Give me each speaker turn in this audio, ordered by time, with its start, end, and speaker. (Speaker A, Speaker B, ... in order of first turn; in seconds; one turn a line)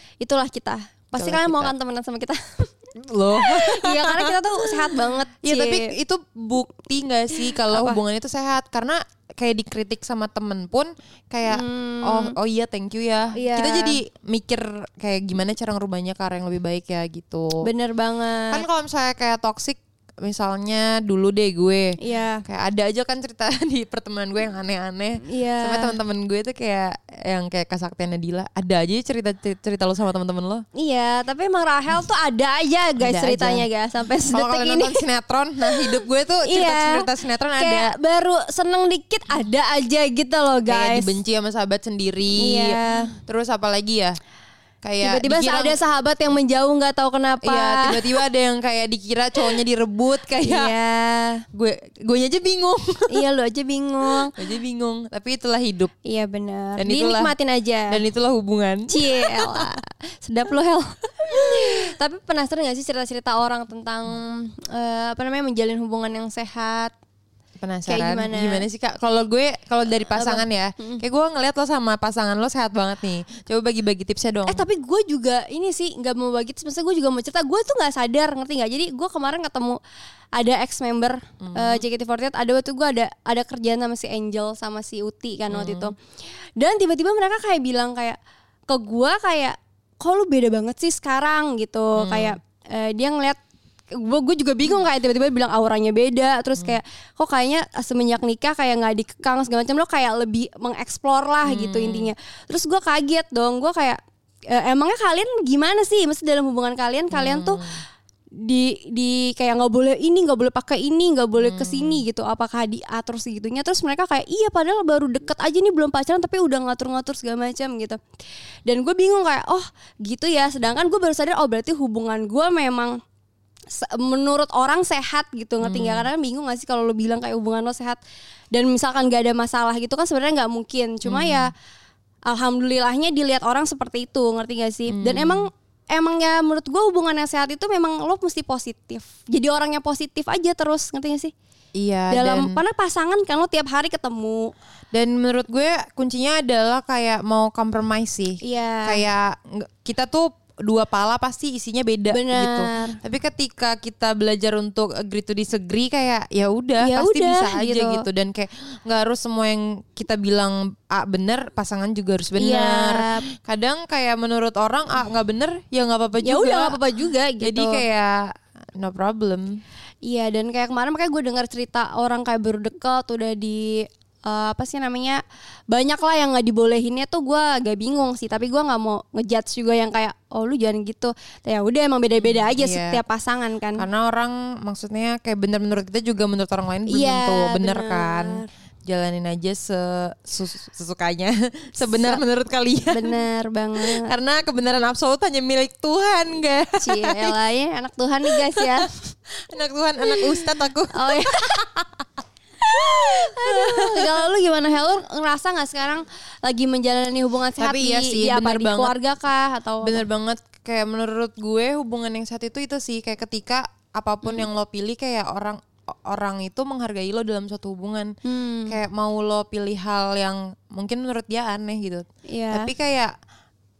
Speaker A: 0.2-2.7
Speaker B: 1.2-1.7
Speaker B: 3.0-4.4
Speaker A: 3.4-5.9
Speaker B: 5.0-17.7
Speaker A: 7.6-8.0
Speaker A: 11.5-12.3
Speaker A: 13.3-14.0
Speaker A: 17.6-18.6
Speaker B: 18.5-30.6
Speaker A: 22.0-22.4
Speaker A: 25.3-25.9
Speaker A: 30.8-35.0
Speaker B: 33.0-33.7
Speaker B: 34.3-37.9
Speaker A: 35.6-41.2
Speaker B: 40.7-44.2
Speaker A: 42.4-43.1
Speaker B: 44.8-45.8
Speaker A: 45.0-48.2
Speaker B: 47.4-50.7
Speaker A: 50.4-51.4
Speaker B: 51.5-53.1
Speaker A: 53.1-54.3
Speaker B: 54.1-55.9
Speaker A: 56.0-58.0
Speaker B: 56.8-57.3
Speaker B: 57.9-59.7
Speaker A: 58.9-66.9
Speaker B: 61.5-61.8
Speaker B: 67.6-74.7
Speaker A: 67.9-68.6
Speaker A: 70.2-71.0
Speaker A: 74.5-79.8
Speaker A: 80.3-86.0
Speaker B: 81.4-81.8
Speaker B: 85.5-85.9
Speaker A: 86.6-93.4
Speaker B: 92.0-92.4
Speaker A: 93.9-104.0
Speaker B: 101.4-102.1
Speaker A: 104.5-107.6
Speaker B: 107.1-107.8
Speaker A: 108.4-118.0
Speaker B: 111.4-112.0
Speaker A: 118.7-122.9
Speaker A: 123.7-128.0
Speaker B: 125.6-126.1
Speaker A: 128.5-131.5
Speaker B: 131.0-131.5
Speaker A: 132.3-141.3
Speaker B: 134.9-135.5
Speaker B: 141.8-142.6
Speaker A: 142.1-144.5
Speaker B: 144.9-166.8
Speaker A: 148.4-149.0
Speaker A: 152.1-152.9
Speaker A: 156.8-158.1
Speaker A: 162.4-163.2
Speaker A: 166.2-167.8
Speaker B: 167.4-168.2
Speaker B: 168.8-169.6
Speaker A: 170.0-183.8
Speaker B: 182.2-183.0
Speaker B: 183.8-193.2
Speaker A: 186.9-188.5
Speaker A: 191.8-192.2
Speaker A: 192.9-194.1
Speaker B: 193.8-197.3
Speaker A: 196.8-198.9
Speaker B: 198.3-198.8
Speaker B: 199.5-202.0
Speaker A: 200.1-201.7
Speaker A: 202.6-210.0
Speaker B: 202.8-204.2
Speaker B: 207.6-208.9
Speaker B: 209.8-218.1
Speaker A: 218.2-218.8
Speaker B: 218.7-223.1
Speaker A: 222.3-222.7